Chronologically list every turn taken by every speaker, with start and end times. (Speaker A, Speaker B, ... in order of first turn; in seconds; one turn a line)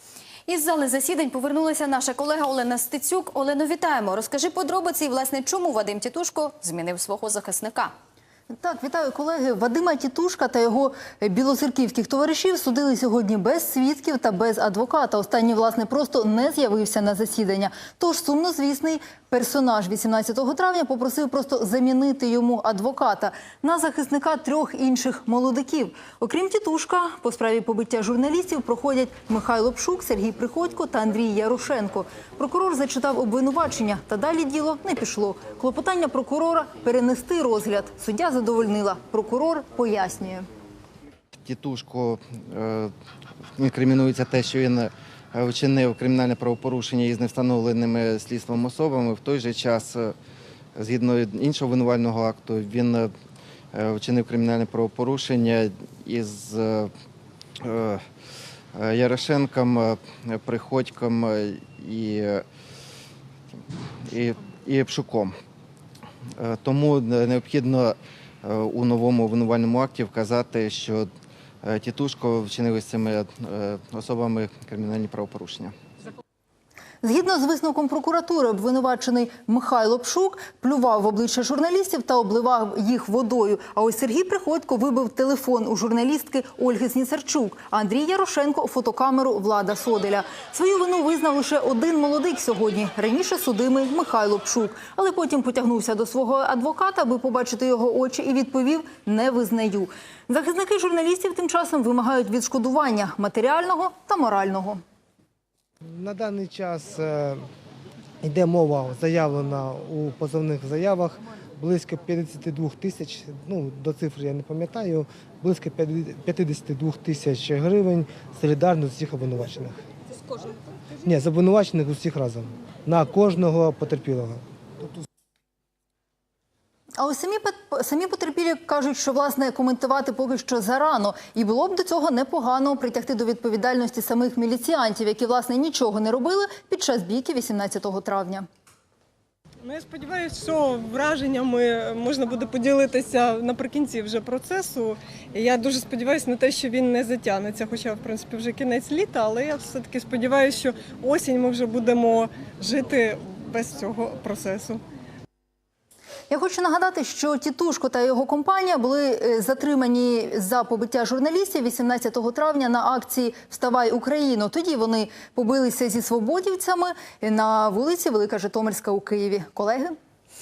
Speaker A: 0.5-7.9
Speaker B: 8.5-40.5
Speaker C: 41.4-42.9
Speaker C: 43.6-50.1
Speaker C: 50.8-53.1
Speaker C: 53.7-56.9
Speaker C: 57.6-58.0
Speaker C: 58.7-62.4
Speaker C: 64.0-65.3
Speaker C: 66.4-71.1
Speaker C: 71.6-75.7
Speaker B: 77.0-104.8
Speaker D: 105.9-107.4
Speaker D: 108.2-119.8
Speaker D: 121.0-124.4
Speaker B: 127.0-138.4
Speaker E: 139.6-154.8
Speaker B: 156.3-169.9